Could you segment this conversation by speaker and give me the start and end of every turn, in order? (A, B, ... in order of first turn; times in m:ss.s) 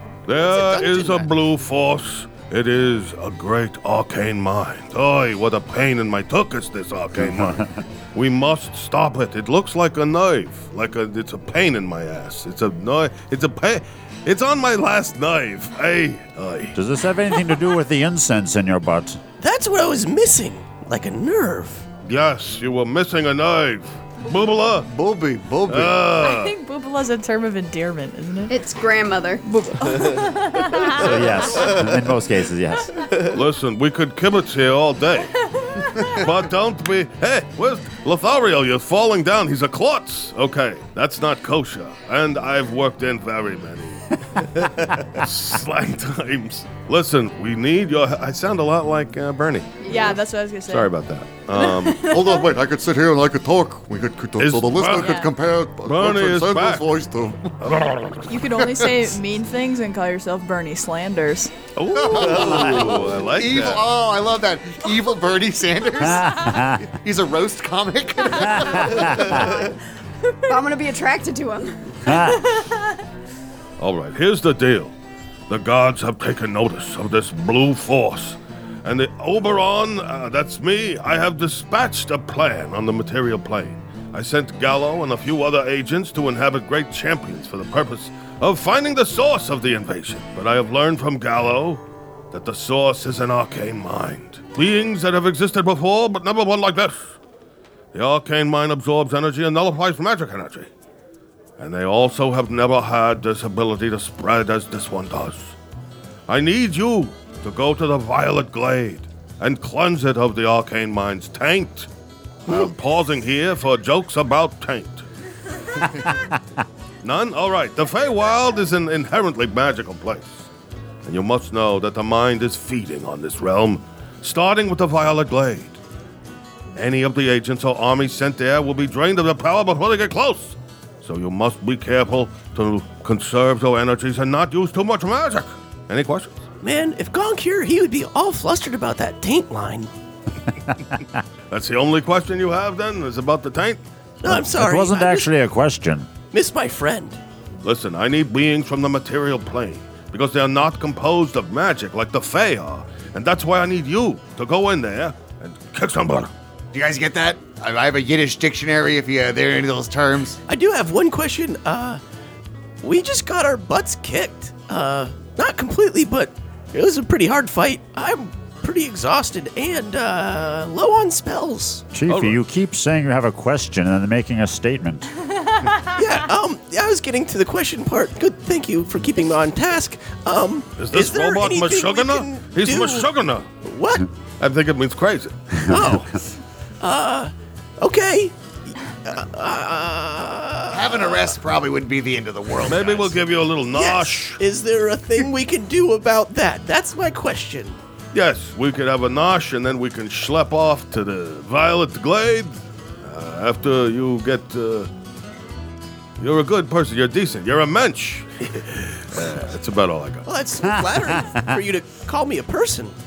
0:00.3-0:16.8 A
0:00.5-0:01.2 B
0:00.6-0:01.1 C
0:07.2-0:07.6 D
0:16.7-0:19.2 D
0:19.4-0:21.8 B
0:22.0-0:24.9 A
0:24.8-0:26.0 C
0:25.7-0:26.5 A
0:26.2-0:28.5 E
0:28.5-0:29.4 F
0:29.4-0:31.0 E
0:30.9-0:33.1 D
0:33.3-0:35.3 A
0:35.8-0:36.0 E
0:36.0-0:49.8 A
0:49.8-0:50.1 F
0:49.9-0:50.9 E
0:50.7-0:52.1 A
0:51.8-0:52.2 E
0:52.1-0:57.6 C
0:54.4-0:55.3 A
0:55.8-0:57.0 A
0:57.6-0:58.2 A
0:58.3-1:01.5 E
0:58.6-0:59.0 C
1:01.8-1:03.9 A
1:01.9-1:09.4 C
1:10.5-1:12.3 F
1:12.1-1:12.4 D
1:13.8-1:14.9 A
1:15.5-1:31.8 A
1:32.3-1:37.1 A
1:37.9-1:40.7 A
1:41.6-1:45.5 A
1:46.3-1:51.9 A
1:52.4-1:55.0 A
1:57.0-2:00.5 A
2:01.0-2:05.8 A
2:06.8-2:16.4 A
2:16.6-2:19.9 B
2:21.5-2:23.8 A
2:24.2-2:25.3 B
2:24.3-2:26.1 D
2:26.3-2:27.2 B
2:27.6-2:36.3 A
2:36.7-2:40.4 C
2:40.5-2:42.0 B
2:42.8-2:51.8 B
2:51.9-2:55.1 D
2:52.1-2:52.4 A
2:55.8-3:03.1 B
3:00.8-3:03.5 A
3:03.6-3:04.1 B
3:04.4-3:05.7 A
3:05.7-3:06.1 B
3:06.8-3:08.3 B
3:09.0-3:11.2 B
3:10.7-3:13.1 C
3:12.6-3:14.4 A
3:13.7-3:17.8 B
3:18.1-3:24.9 A
3:26.2-3:30.2 A
3:30.2-3:33.0 B